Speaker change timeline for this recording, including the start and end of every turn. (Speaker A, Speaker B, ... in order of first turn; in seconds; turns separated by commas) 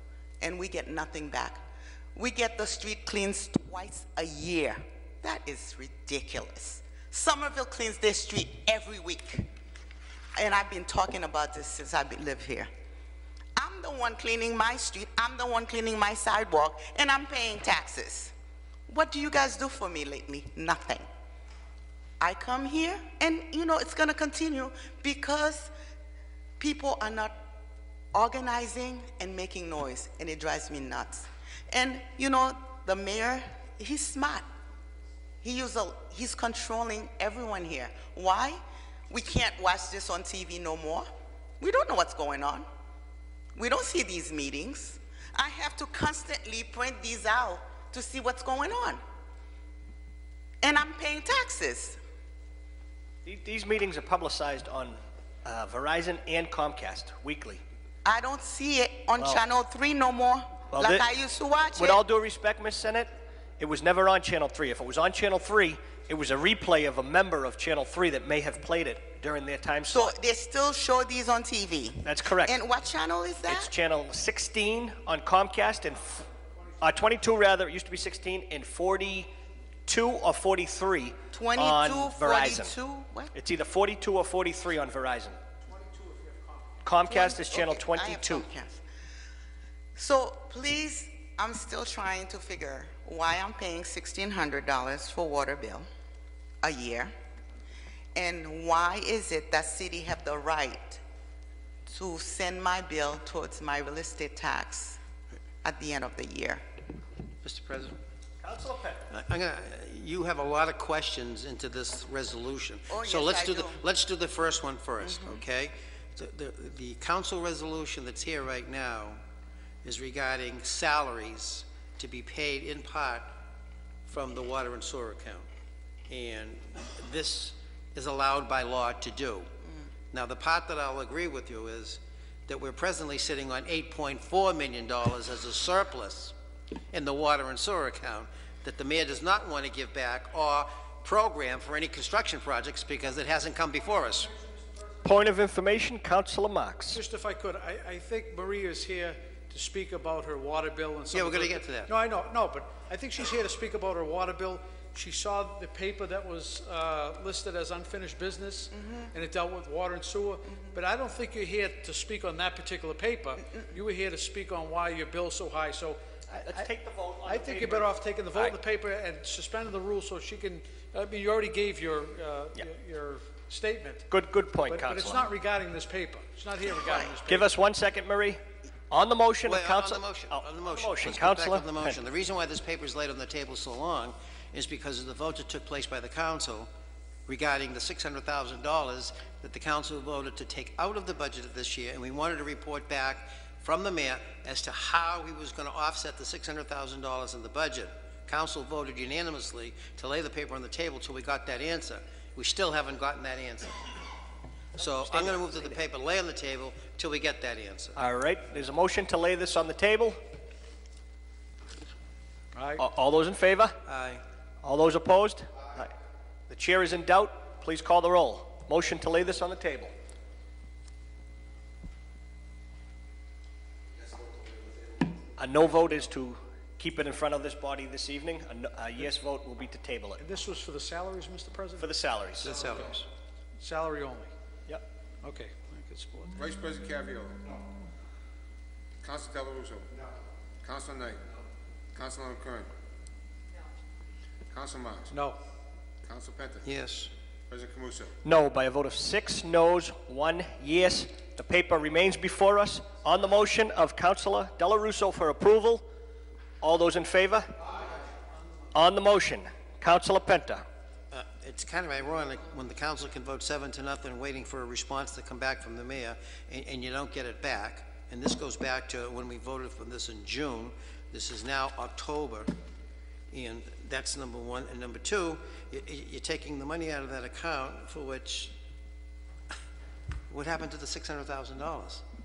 Speaker A: 0.4-1.6, Speaker A: 2.1-9.5, Speaker A: 10.3-12.7, Speaker A: 13.6-18.3, Speaker A: 18.9-21.1, Speaker A: 22.2-25.7, Speaker A: 26.6-27.4, Speaker A: 28.1-34.5, Speaker A: 35.4-41.1, Speaker A: 41.6-42.6, Speaker A: 43.5-49.0, Speaker A: 50.6-52.0, Speaker B: 53.2-57.6, Speaker A: 58.0-62.0, Speaker B: 60.7-61.0, Speaker B: 61.8-63.1, Speaker B: 63.6-70.1, Speaker A: 69.9-73.7, Speaker B: 72.0-72.6, Speaker B: 73.5-76.3, Speaker B: 76.8-79.3, Speaker B: 79.8-82.7, Speaker A: 81.3-83.3, Speaker B: 83.3-85.4, Speaker C: 85.7-86.7, Speaker B: 86.8-88.5, Speaker A: 87.1-88.8, Speaker A: 90.0-95.9, Speaker A: 96.6-97.1, Speaker A: 98.1-101.0, Speaker A: 101.9-105.0, Speaker A: 105.6-106.6, Speaker D: 107.4-108.0, Speaker B: 108.4-109.0, Speaker D: 109.1-119.2, Speaker A: 112.9-113.8, Speaker A: 115.0-115.4, Speaker D: 119.8-123.3, Speaker D: 124.1-125.5, Speaker D: 126.1-129.5, Speaker D: 130.1-136.3, Speaker D: 136.9-144.3, Speaker B: 145.0-147.0, Speaker C: 146.9-166.7, Speaker D: 151.1-151.9, Speaker A: 158.8-159.1, Speaker B: 166.3-168.6, Speaker C: 167.2-174.0, Speaker B: 174.1-175.2, Speaker C: 174.7-177.5, Speaker A: 176.8-177.1, Speaker B: 177.2-178.4, Speaker B: 178.9-182.0, Speaker D: 179.4-186.7, Speaker D: 187.3-203.8, Speaker D: 204.7-208.0, Speaker B: 207.9-210.2, Speaker C: 212.5-212.8, Speaker B: 212.8-213.8, Speaker D: 213.9-214.2, Speaker B: 214.6-215.9, Speaker B: 216.5-219.9, Speaker B: 225.4-230.2, Speaker C: 230.2-231.9, Speaker B: 231.8-232.6, Speaker D: 232.4-233.1, Speaker C: 233.6-234.3, Speaker C: 235.2-236.3, Speaker E: 236.4-237.4, Speaker E: 239.0-239.9, Speaker E: 240.6-241.2, Speaker E: 241.9-242.7, Speaker E: 244.5-245.1, Speaker E: 246.1-246.7, Speaker D: 246.6-247.1, Speaker E: 247.5-248.1, Speaker B: 248.2-255.8, Speaker B: 256.6-257.5, Speaker B: 258.7-260.6, Speaker D: 261.1-272.5, Speaker D: 273.3-278.5, Speaker D: 280.3-282.0